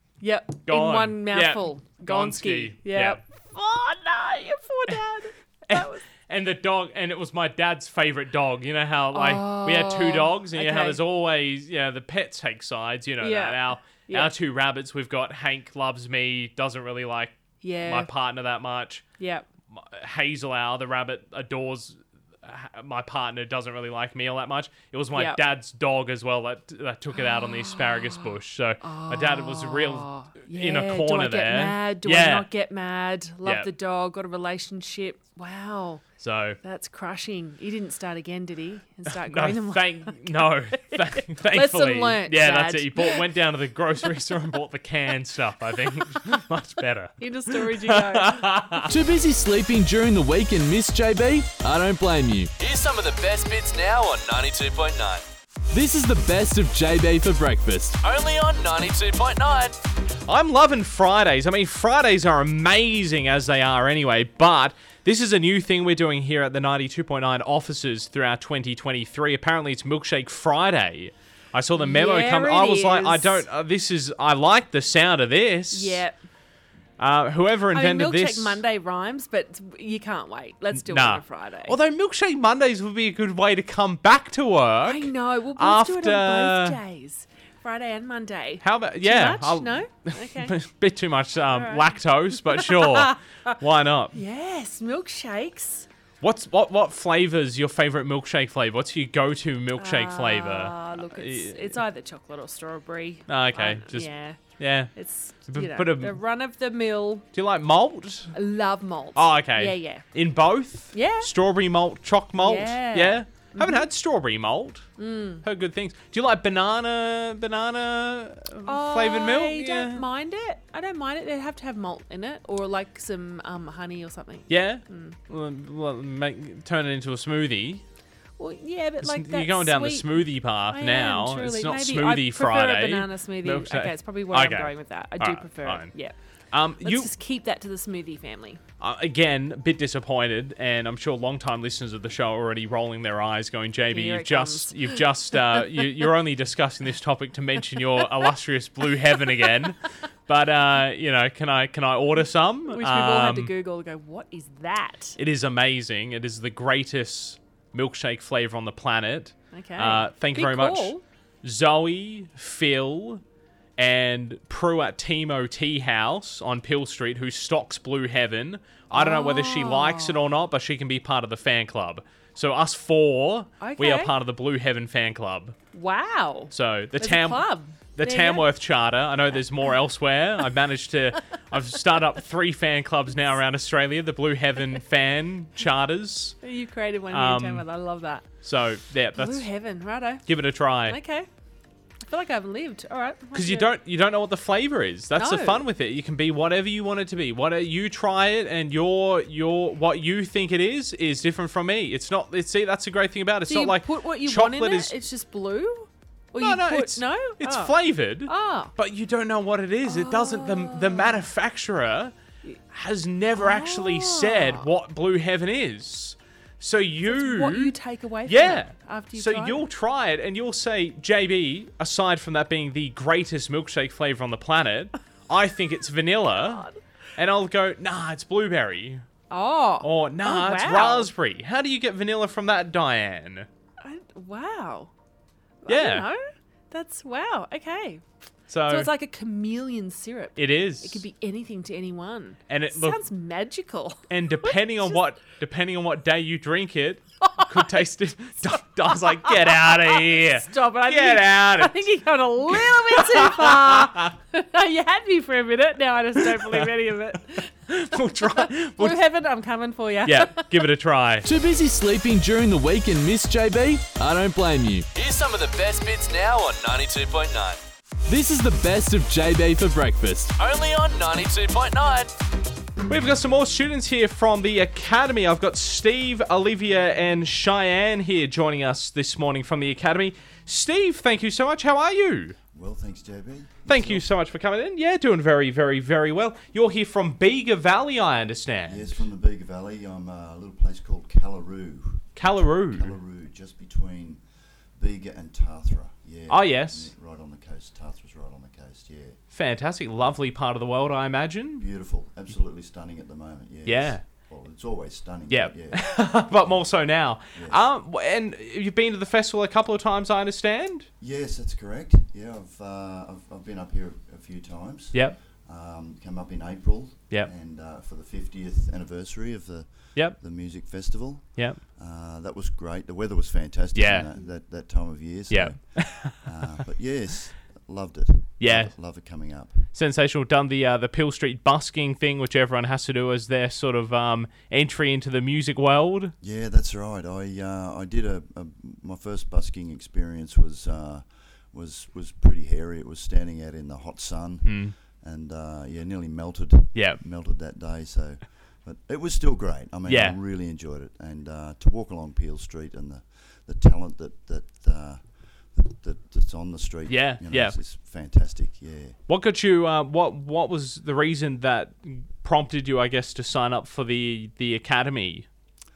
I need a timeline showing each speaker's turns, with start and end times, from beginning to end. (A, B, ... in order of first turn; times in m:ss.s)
0:00.2-0:06.0 A
0:00.6-0:03.2 B
0:05.7-0:19.0 B
0:09.1-0:11.0 A
0:13.2-0:14.3 A
0:17.6-0:18.1 A
0:19.2-0:19.5 A
0:19.7-0:32.5 B
0:25.1-0:25.4 A
0:27.2-0:36.1 A
0:33.4-0:33.7 B
0:36.2-0:36.6 B
0:36.6-0:43.3 A
0:39.1-0:48.9 B
0:47.2-0:48.9 A
0:48.9-0:52.5 C
0:52.6-0:55.2 D
0:55.7-0:58.0 C
0:58.0-0:59.7 D
1:00.3-1:16.0 B
1:11.8-1:13.4 A
1:15.7-1:16.2 A
1:17.0-1:18.6 B
1:17.7-1:21.8 A
1:20.8-1:26.8 B
1:24.8-1:30.6 A
1:28.6-1:34.2 B
1:31.5-1:33.6 A
1:34.1-1:35.9 A
1:36.2-1:41.8 B
1:39.8-1:47.3 A
1:43.3-1:44.9 B
1:45.4-1:46.2 B
1:47.3-1:48.3 B
1:48.3-1:50.0 A
1:49.2-1:54.9 B
1:50.9-1:51.3 A
1:52.4-1:53.9 A
1:55.0-1:55.4 A
1:55.4-2:00.0 B
1:58.6-2:05.2 A
2:04.5-2:07.8 B
2:08.4-2:16.2 A
2:09.0-2:16.0 B
2:16.5-2:17.1 B
2:16.8-2:18.6 A
2:18.8-2:33.5 B
2:23.9-2:25.0 A
2:32.7-2:35.2 A
2:35.2-2:43.2 B
2:39.5-2:41.0 A
2:43.8-2:55.6 B
2:48.9-2:50.2 A
2:53.6-2:54.1 A
2:55.7-2:58.5 A
2:56.5-3:06.4 B
3:06.4-3:08.3 A
3:07.1-3:07.7 B
3:08.4-3:09.5 B
3:09.1-3:10.2 A
3:10.3-3:11.0 B
3:10.8-3:11.3 A
3:12.0-3:13.7 A
3:13.3-3:24.9 B
3:15.2-3:15.7 A
3:23.5-3:28.7 A
3:26.4-3:32.2 B
3:29.9-3:31.2 A
3:32.7-3:37.7 B
3:33.4-3:34.7 A
3:37.1-3:39.6 A
3:38.3-3:49.0 B
3:46.3-3:46.8 A
3:49.3-3:51.1 A
3:49.8-3:53.5 B
3:53.8-3:54.9 A
3:55.6-4:05.0 A
3:55.7-3:56.1 B
3:58.5-3:58.9 B
4:00.4-4:01.0 B
4:02.5-4:03.0 B
4:04.1-4:11.9 B
4:07.2-4:07.8 A
4:08.5-4:17.5 A
4:12.5-4:14.1 B
4:16.2-4:16.7 B
4:17.4-4:19.0 B
4:18.3-4:20.7 A
4:20.0-4:21.3 B
4:21.2-4:24.9 C
4:24.9-4:27.6 D
4:28.1-4:30.4 C
4:30.4-4:32.1 D
4:32.9-4:42.4 B
4:42.5-4:44.0 E
4:43.7-4:49.1 B
4:48.6-4:59.2 E
4:52.2-4:53.0 B
4:56.3-4:56.9 B
4:59.3-5:01.7 B
5:01.6-5:07.6 E
5:03.7-5:04.0 B
5:05.3-5:10.9 B
5:11.0-5:29.6 E
5:14.9-5:15.2 B
5:20.0-5:20.2 B
5:21.4-5:21.6 B
5:23.7-5:24.1 B
5:25.3-5:26.2 B
5:28.4-5:36.1 B
5:36.2-5:59.0 E
5:44.4-5:44.7 B
5:46.7-5:47.0 B
5:49.9-5:50.2 B
5:56.9-5:57.6 B
5:59.1-6:05.3 B